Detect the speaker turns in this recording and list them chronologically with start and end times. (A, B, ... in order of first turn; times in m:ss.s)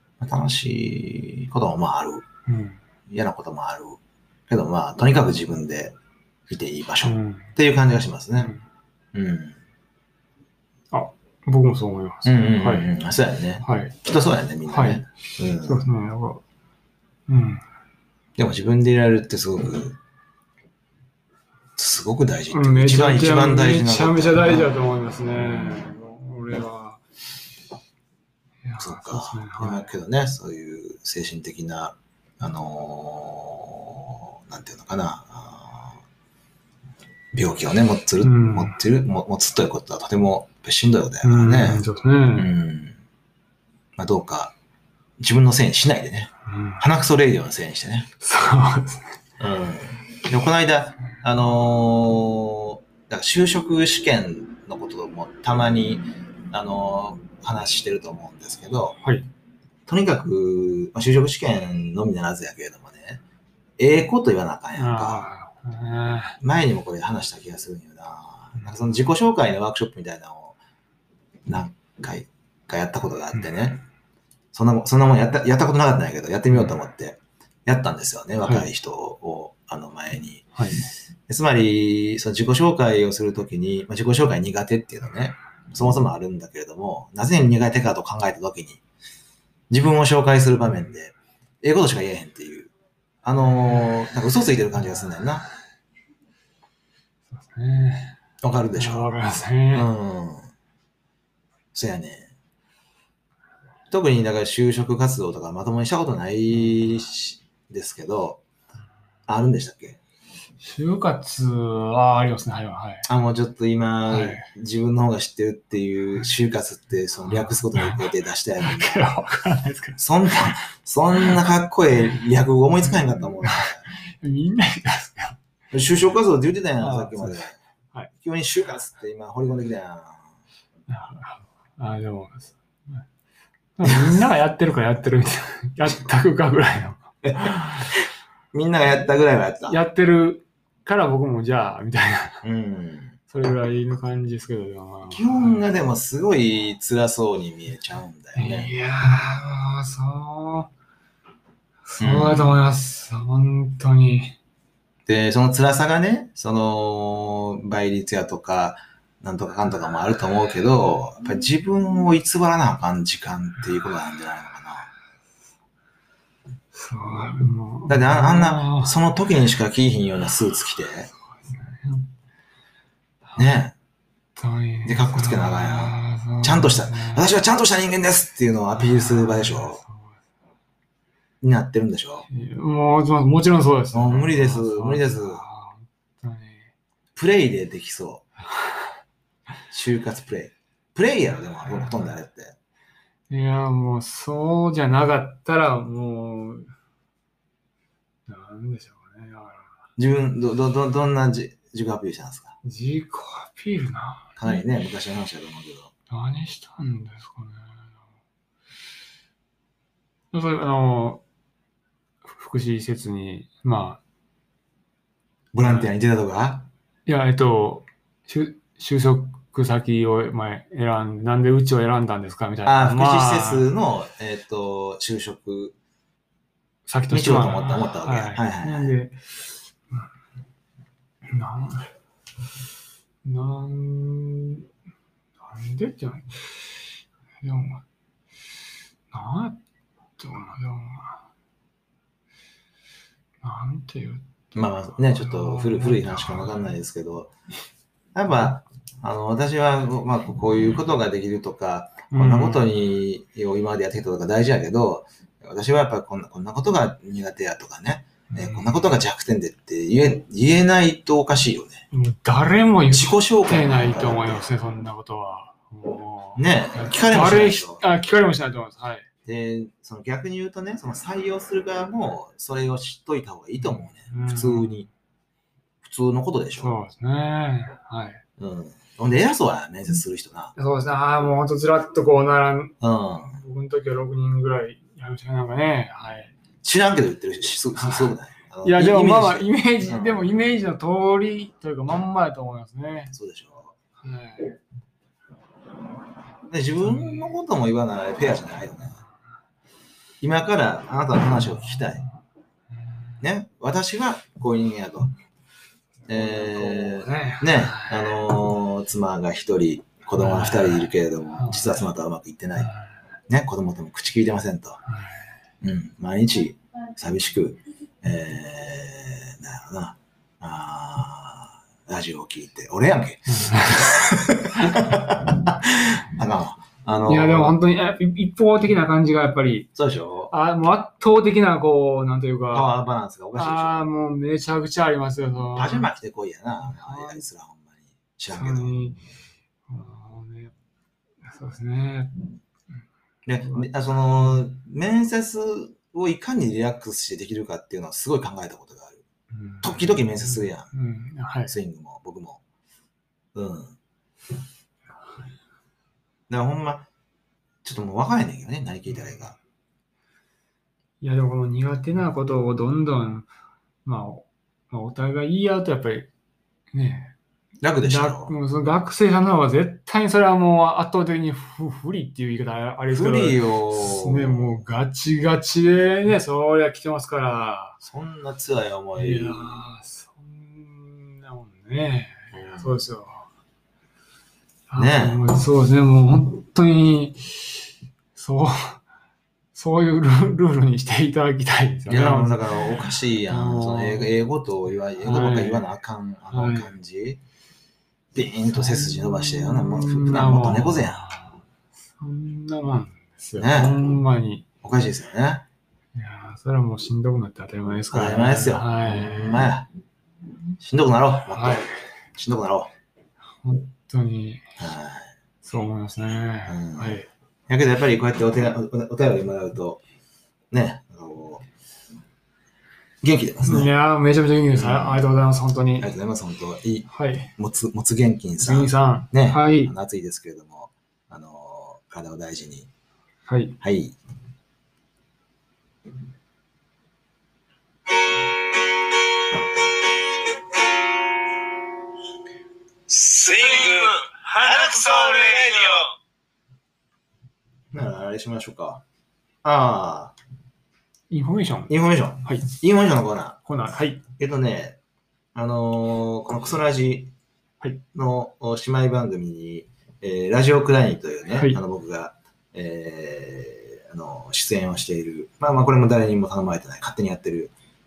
0:00.2-0:02.2 A
0:02.5-0:02.8 B
0:03.1-0:06.0 A
0:06.5-0:08.5 A
0:07.0-0:07.5 B
0:09.1-0:09.6 A
0:10.9-0:12.9 B
0:12.2-0:15.8 A
0:13.6-0:14.0 B
0:14.7-0:16.4 B
0:17.3-0:17.6 B
0:18.4-0:20.0 A
0:21.8-0:24.7 A
0:22.5-0:27.0 B
0:28.6-0:29.9 B
0:28.8-0:36.0 A
0:37.3-0:41.8 A
0:38.2-0:38.8 B
0:41.2-0:42.5 B
0:42.4-0:43.0 A
0:44.0-0:44.5 A
0:45.2-0:48.1 A
0:46.5-0:46.8 B
0:48.2-0:49.1 B
0:49.4-0:59.0 A
0:59.9-1:03.2 A
1:03.8-1:05.3 A
1:04.8-1:06.4 B
1:06.4-1:10.6 A
1:11.5-1:13.8 A
1:14.5-1:20.5 A
1:20.6-1:20.8 B
1:21.3-1:28.8 A
1:29.7-1:32.7 A
1:33.2-1:35.4 A
1:37.4-1:38.2 B
1:38.4-1:39.1 A
1:38.8-1:39.9 B
1:39.7-1:40.5 A
1:41.7-1:42.3 A
1:43.9-1:48.4 A
1:49.3-1:50.0 A
1:50.6-1:53.1 B
1:53.1-1:58.9 A
1:54.1-1:54.5 B
1:57.3-1:58.0 B
1:58.6-2:00.0 B
2:00.0-2:03.9 A
2:03.4-2:05.4 B
2:05.7-2:07.6 A
2:06.8-2:08.1 B
2:08.1-2:10.3 A
2:10.9-2:13.0 B
2:13.8-2:17.0 B
2:13.9-2:14.1 A
2:17.2-2:19.8 A
2:19.7-2:22.4 B
2:22.4-2:23.2 A
2:23.3-2:25.6 B
2:25.1-2:28.7 A
2:28.4-2:30.7 B
2:31.9-2:34.4 B
2:32.0-2:32.7 A
2:35.1-2:44.9 A
2:46.7-2:49.0 B
2:47.9-2:51.1 A
2:51.5-2:52.1 B
2:53.4-2:53.8 A
2:54.4-2:57.3 B
2:54.8-2:59.8 A
2:58.7-3:00.2 B
3:01.4-3:02.3 A
3:02.3-3:06.7 B
3:03.9-3:05.4 A
3:07.2-3:08.2 A
3:09.7-3:12.6 A
3:11.7-3:12.1 B
3:13.3-3:16.7 B
3:18.3-3:19.8 B
3:20.0-3:22.6 A
3:22.6-3:24.3 B
3:24.4-3:25.9 A
3:26.1-3:27.8 B
3:30.3-3:31.2 B
3:32.3-3:34.0 B
3:35.5-3:36.7 A
3:35.6-3:35.9 B
3:37.1-3:43.7 B
3:42.7-3:45.8 A
3:46.9-3:49.4 B
3:47.1-3:48.9 A
3:51.3-3:51.9 B
3:53.2-3:54.7 B
3:55.4-3:56.6 B
3:57.4-3:57.8 B
3:59.1-3:59.6 B
4:00.2-4:01.2 B
4:03.4-4:04.2 B
4:04.5-4:07.3 A
4:05.1-4:06.8 B
4:08.2-4:21.8 A
4:12.1-4:12.6 B
4:18.3-4:18.8 B
4:21.9-4:29.1 B
4:22.9-4:24.5 A
4:26.4-4:27.8 A
4:29.3-4:34.9 A
4:33.6-4:34.9 B
4:35.8-4:36.8 A
4:36.6-4:38.2 B
4:38.4-4:40.5 A
4:40.6-4:42.8 B
4:42.8-4:43.4 A
4:43.3-4:46.3 B
4:46.6-4:50.3 A
4:47.8-4:53.2 B
4:53.1-4:53.7 A
4:54.0-4:54.6 B
4:56.5-4:59.0 A
4:56.8-4:57.3 B
5:00.2-5:02.1 A
5:03.2-5:05.1 A
5:06.1-5:08.3 B
5:06.1-5:12.7 A
5:10.2-5:11.8 B
5:12.6-5:12.9 B
5:13.3-5:14.8 A
5:15.6-5:27.6 A
5:23.3-5:23.9 B
5:27.1-5:29.7 B
5:29.8-5:30.3 A
5:30.3-5:32.7 B
5:32.5-5:33.9 A
5:33.4-5:35.9 B
5:35.6-5:38.8 A
5:36.7-5:37.2 B
5:38.3-5:39.0 B
5:39.7-5:40.5 B
5:41.2-5:42.2 B
5:43.3-5:49.0 A
5:49.3-5:51.6 B
5:49.6-5:50.7 A
5:51.5-5:52.4 A
5:53.3-5:53.8 A
5:56.3-5:56.9 A
5:57.6-5:59.4 A
6:01.0-6:03.3 B
6:03.8-6:06.1 B
6:06.7-6:07.2 B
6:07.6-6:08.4 A
6:07.8-6:17.8 B
6:12.9-6:14.6 A
6:17.8-6:19.6 A
6:19.0-6:23.3 B
6:22.3-6:22.8 A
6:24.7-6:28.8 B
6:24.8-6:25.2 A
6:29.5-6:32.7 B
6:31.9-6:37.2 A
6:33.3-6:34.1 B
6:35.0-6:35.7 B
6:36.3-6:36.7 B
6:38.1-6:41.1 A
6:38.5-6:41.4 B
6:42.0-6:44.5 B
6:43.4-6:43.9 A
6:44.6-6:45.4 A
6:46.0-6:49.5 B
6:47.9-6:49.7 A
6:50.6-6:52.7 A
6:51.3-6:51.7 B
6:53.4-6:54.5 B
6:54.6-6:55.1 A
6:55.4-6:57.1 B
6:56.5-6:59.8 A
7:00.5-7:01.5 A
7:03.0-7:03.7 A
7:03.4-7:06.0 B
7:04.5-7:05.0 A
7:05.8-7:12.7 A
7:06.9-7:07.3 B
7:08.4-7:09.7 B
7:13.3-7:13.6 B
7:13.6-7:14.0 A
7:22.9-7:25.9 C
7:27.7-7:28.8 A
7:29.4-7:30.2 A
7:31.1-7:31.7 B
7:31.7-7:33.4 A
7:33.5-7:34.0 B
7:34.2-7:34.8 A
7:35.4-7:37.1 A
7:37.9-7:47.5 A
7:41.4-7:41.6 B